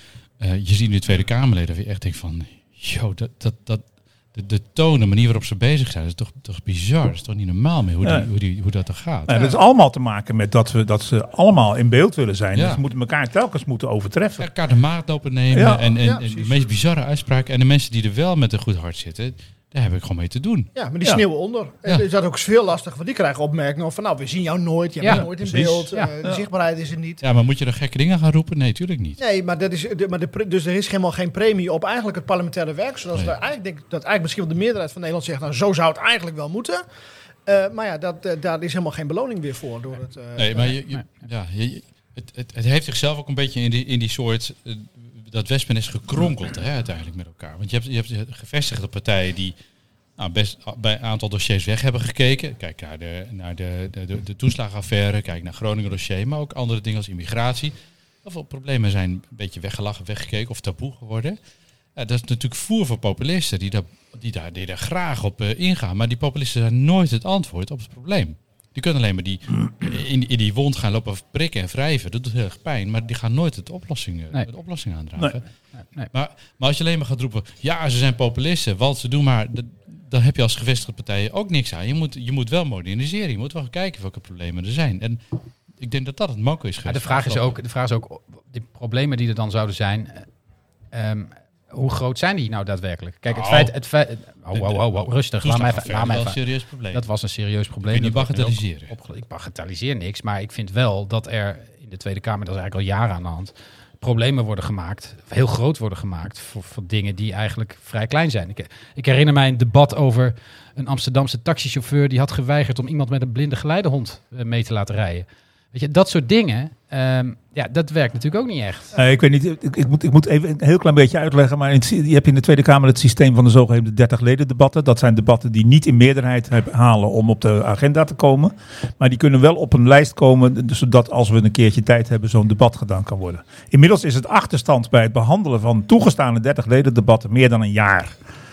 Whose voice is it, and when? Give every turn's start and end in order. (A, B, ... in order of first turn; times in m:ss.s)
0:00.4-0:09.4 A
0:09.3-0:14.5 B
0:12.5-0:12.8 A
0:14.4-0:20.7 A
0:15.5-0:15.9 B
0:16.0-0:16.6 C
0:20.8-0:27.2 C
0:25.0-0:25.3 D
0:25.1-0:26.4 B
0:27.2-0:29.2 A
0:29.2-0:36.8 C
0:37.5-0:40.8 C
0:40.4-0:49.5 A
0:50.2-1:01.4 A
1:02.0-1:15.4 A
1:16.1-1:25.2 A
1:25.8-1:27.6 A
1:26.9-1:30.3 D
1:30.9-1:36.4 D
1:33.3-1:33.7 A
1:34.5-1:37.0 A
1:36.9-1:58.9 D
1:37.9-1:38.9 A
1:58.9-2:18.2 B